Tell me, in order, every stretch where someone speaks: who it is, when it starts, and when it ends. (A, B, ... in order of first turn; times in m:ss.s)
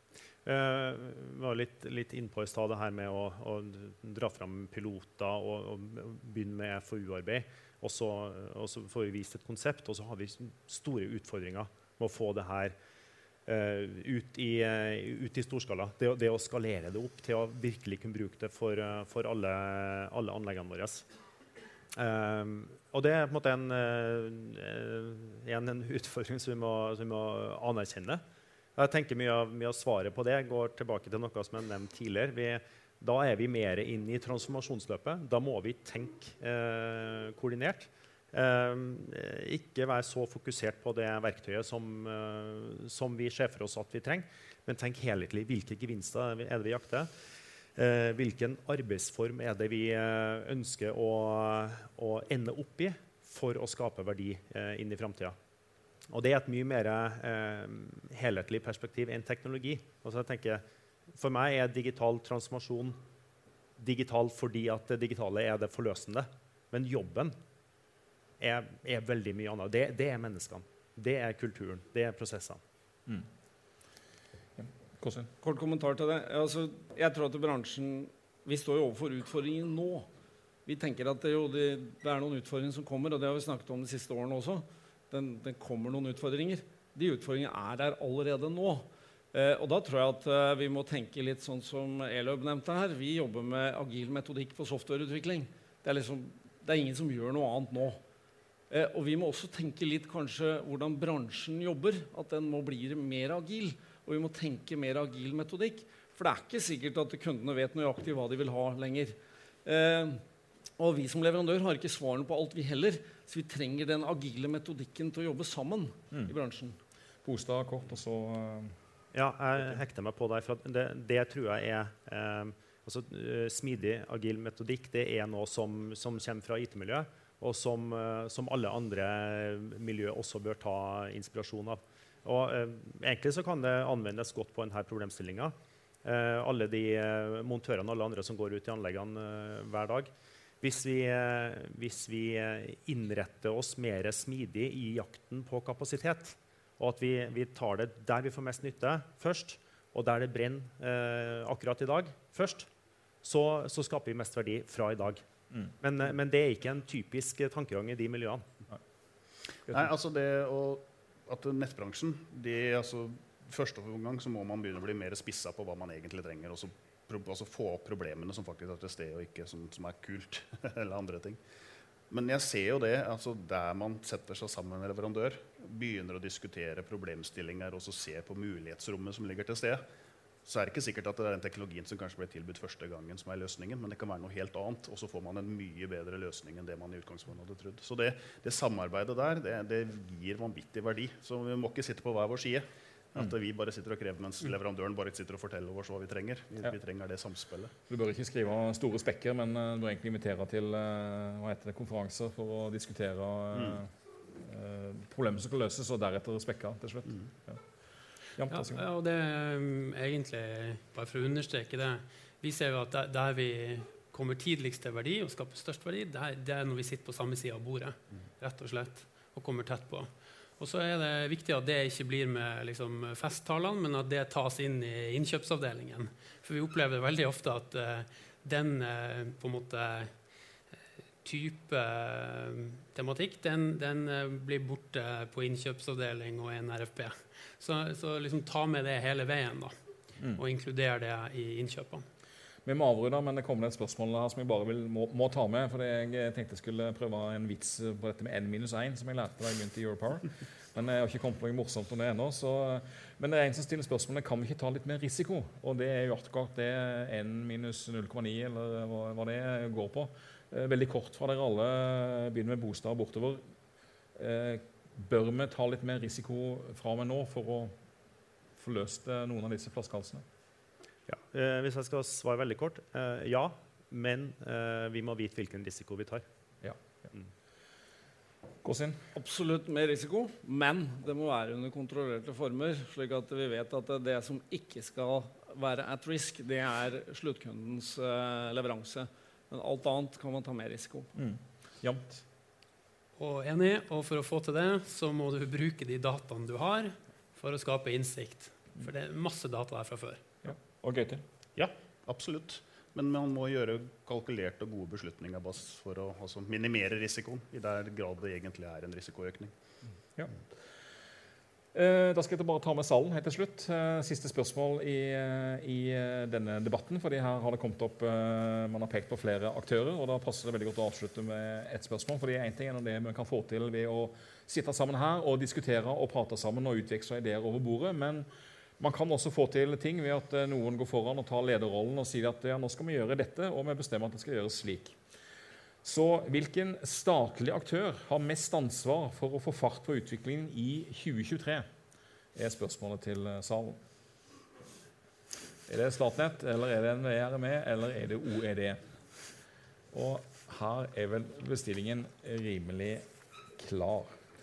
0:00.4-0:12.8 A
0:13.5-0:21.0 A
0:22.0-0:28.2 A
0:28.8-0:47.1 A
0:47.8-0:55.4 A
0:56.1-1:03.0 A
1:03.8-1:07.4 A
1:08.4-1:12.6 A
1:14.6-1:15.3 B
1:15.4-1:20.1 C
1:20.7-1:38.0 C
1:38.7-1:50.2 C
1:50.8-1:56.8 C
1:57.2-1:58.8 B
1:59.1-2:32.7 A
2:33.2-2:35.3 A
2:35.8-2:38.5 A
2:39.7-2:51.4 D
2:52.1-2:59.9 D
3:00.4-3:17.7 D
3:17.9-3:27.6 B
3:23.5-3:23.8 D
3:28.4-3:28.8 B
3:28.5-3:50.2 E
3:51.2-3:59.8 E
4:00.4-4:02.1 E
4:02.6-4:23.4 B
4:24.2-4:27.8 B
4:28.6-4:30.2 B
4:31.1-4:36.3 A
4:36.6-4:37.1 B
4:38.6-4:39.1 B
4:39.1-4:51.1 C
4:51.2-4:52.2 B
4:53.2-5:00.2 E
5:00.4-5:01.2 B
5:01.6-5:09.5 D
5:11.7-5:28.3 B
5:28.8-5:35.0 B
5:35.8-5:41.7 B
5:42.4-5:43.8 B
5:45.7-5:48.8 B
5:49.9-5:53.0 B
5:53.6-5:54.2 B